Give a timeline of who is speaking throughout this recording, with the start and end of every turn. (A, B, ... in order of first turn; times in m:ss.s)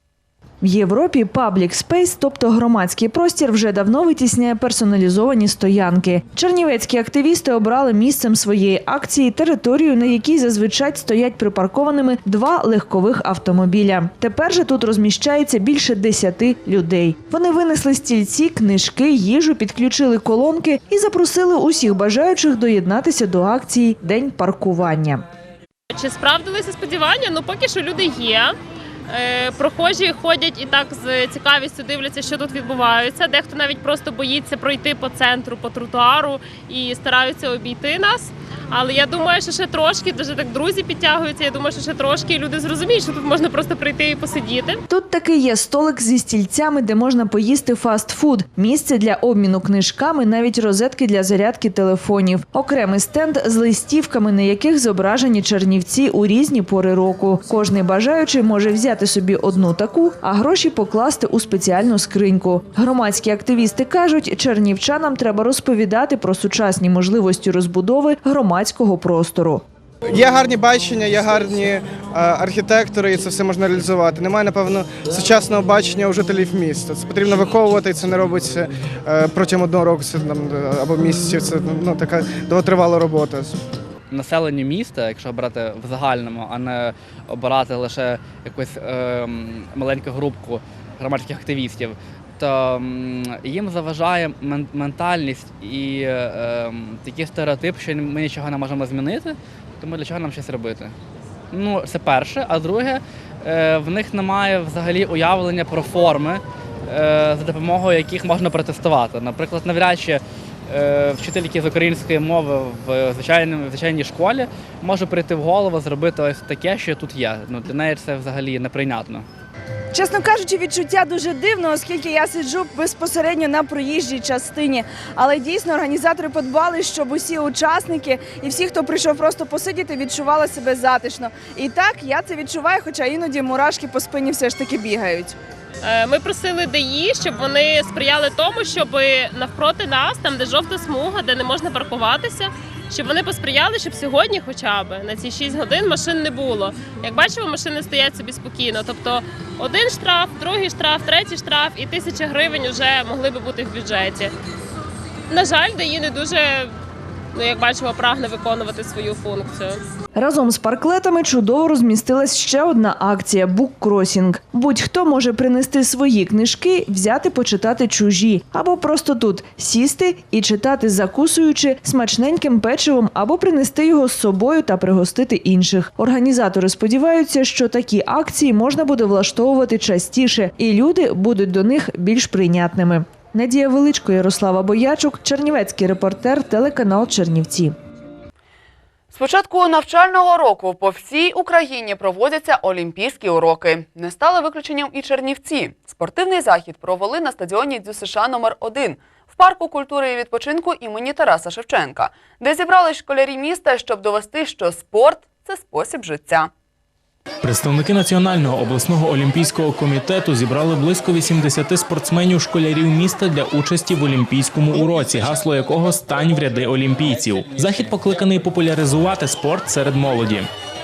0:00.6-0:25.2 A
0:25.9-0:28.6 B
0:29.1-0:44.8 B
0:44.9-1:09.6 A
1:10.1-1:23.6 C
1:24.1-1:40.9 D
1:41.5-1:59.3 D
2:00.0-2:15.3 E
2:15.8-2:34.3 B
2:35.3-2:36.7 B
2:37.3-2:39.8 B
2:40.2-3:07.8 A
3:09.1-3:26.5 F
3:27.4-3:40.5 G